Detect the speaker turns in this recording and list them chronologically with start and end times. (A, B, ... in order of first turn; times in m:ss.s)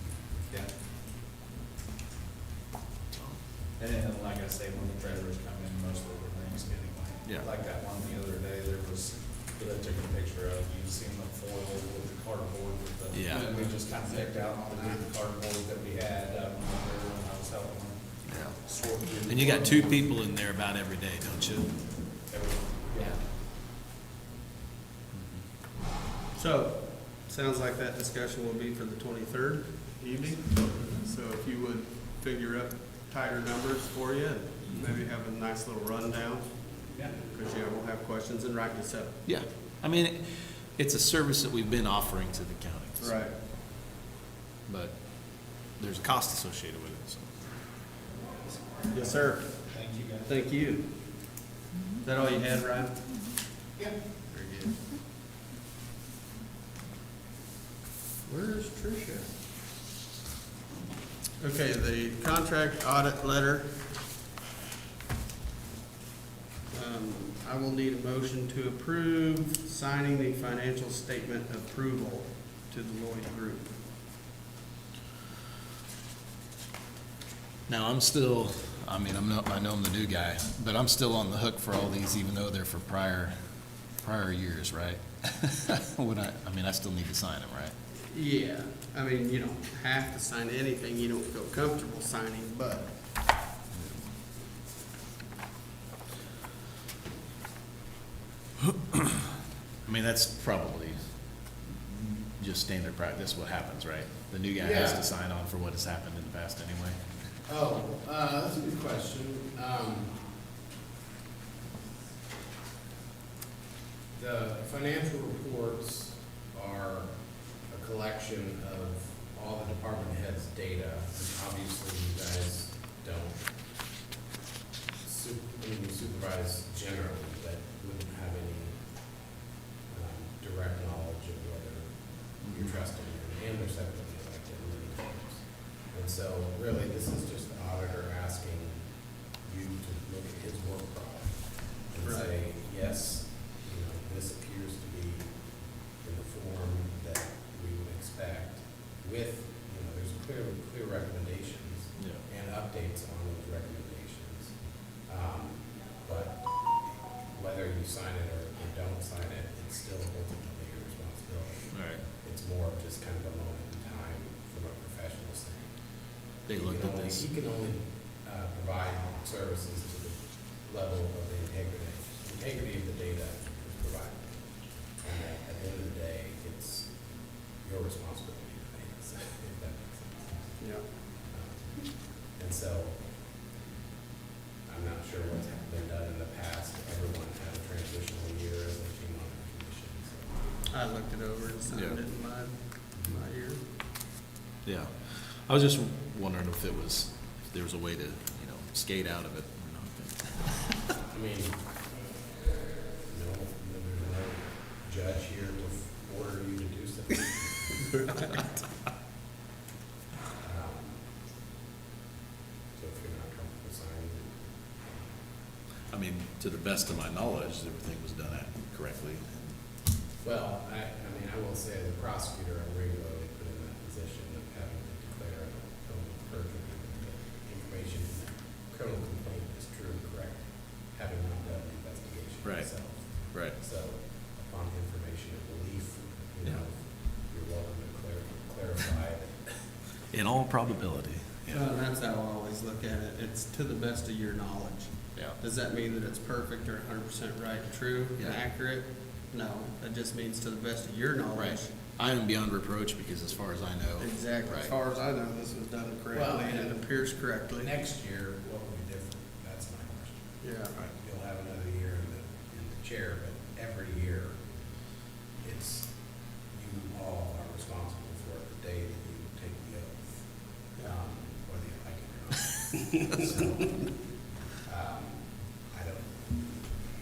0:03.1-0:03.4 A
0:03.8-0:20.0 B
0:13.1-0:13.5 A
0:13.3-0:15.0 C
0:18.3-0:18.6 A
0:19.2-0:21.7 A
0:22.3-0:23.2 B
0:25.1-0:25.4 A
0:26.3-0:36.5 C
0:37.0-0:39.2 C
0:39.2-0:43.1 A
0:43.0-0:43.3 C
0:44.7-0:44.9 A
0:45.8-0:47.4 A
0:48.9-0:49.5 C
0:49.7-0:50.3 B
0:50.3-0:50.8 C
0:52.0-0:53.0 C
0:54.3-0:54.8 C
0:58.2-0:59.3 C
1:01.4-1:03.8 C
1:06.7-1:13.7 C
1:17.7-1:23.3 A
1:24.0-1:27.7 A
1:28.1-1:32.9 C
1:33.7-1:34.0 A
1:38.7-1:39.3 A
1:39.8-1:41.0 A
1:41.9-1:47.0 A
1:44.6-1:45.0 D
1:47.5-1:50.2 D
1:54.1-1:57.1 D
1:57.7-2:03.4 D
2:05.0-2:08.8 D
2:09.9-2:11.9 D
2:12.4-2:18.8 D
2:19.4-2:25.3 D
2:22.0-2:22.3 C
2:26.0-2:34.5 D
2:32.0-2:32.2 A
2:35.0-2:36.4 D
2:37.3-2:45.7 D
2:41.7-2:42.0 A
2:46.5-2:47.2 A
2:46.5-2:54.4 D
2:55.0-2:56.9 D
2:57.6-3:00.5 D
3:00.6-3:00.8 C
3:01.3-3:01.7 D
3:02.3-3:03.0 D
3:04.7-3:10.4 D
3:10.7-3:13.6 C
3:11.7-3:12.0 A
3:14.6-3:20.8 A
3:21.1-3:21.6 D
3:23.1-3:27.3 D
3:30.4-3:31.0 D
3:32.7-3:34.3 D
3:35.9-3:39.5 A
3:40.2-3:59.5 D
3:52.4-3:52.7 A
3:53.3-3:53.6 A
4:00.1-4:01.6 A
4:01.5-4:11.7 C
4:11.4-4:14.7 A
4:14.0-4:17.7 C
4:16.1-4:16.8 D
4:17.6-4:20.4 D
4:20.4-4:20.7 C
4:20.9-4:24.4 D
4:25.4-4:25.9 D
4:26.5-4:30.2 D
4:30.8-4:33.8 D
4:32.8-4:33.5 C
4:34.6-4:36.5 D